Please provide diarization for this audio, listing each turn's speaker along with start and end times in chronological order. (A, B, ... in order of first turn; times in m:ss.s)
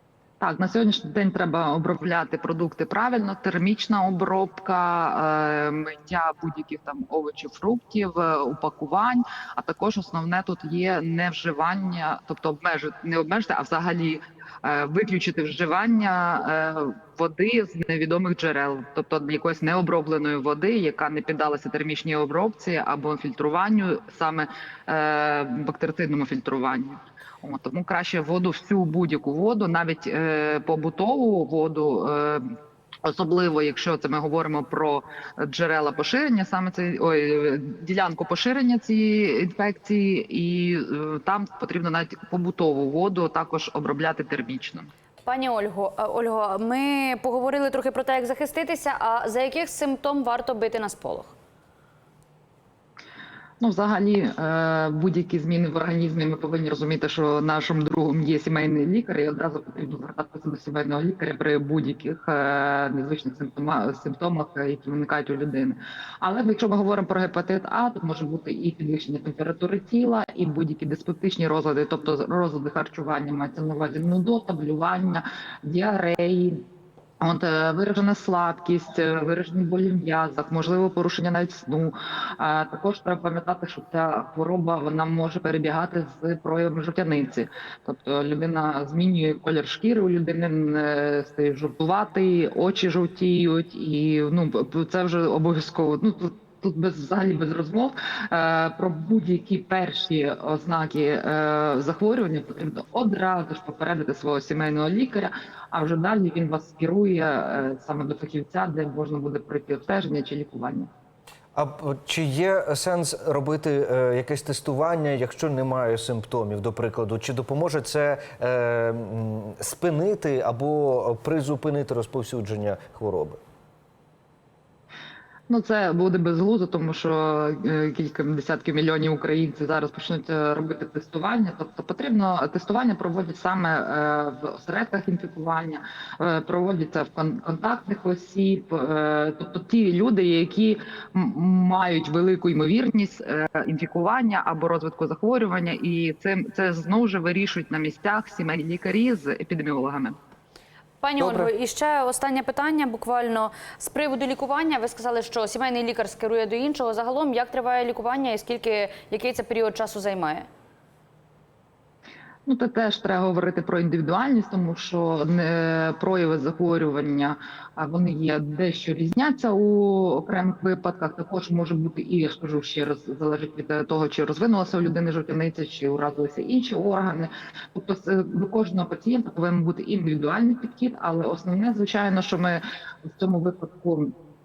0:00.4-0:44.9 A
0:45.2-0:51.4 B
0:53.6-1:16.6 A
1:17.2-1:50.9 A
1:51.6-2:03.4 C
2:05.5-2:30.2 A
2:31.0-2:40.5 B
2:31.2-2:31.5 C
2:42.5-3:04.1 A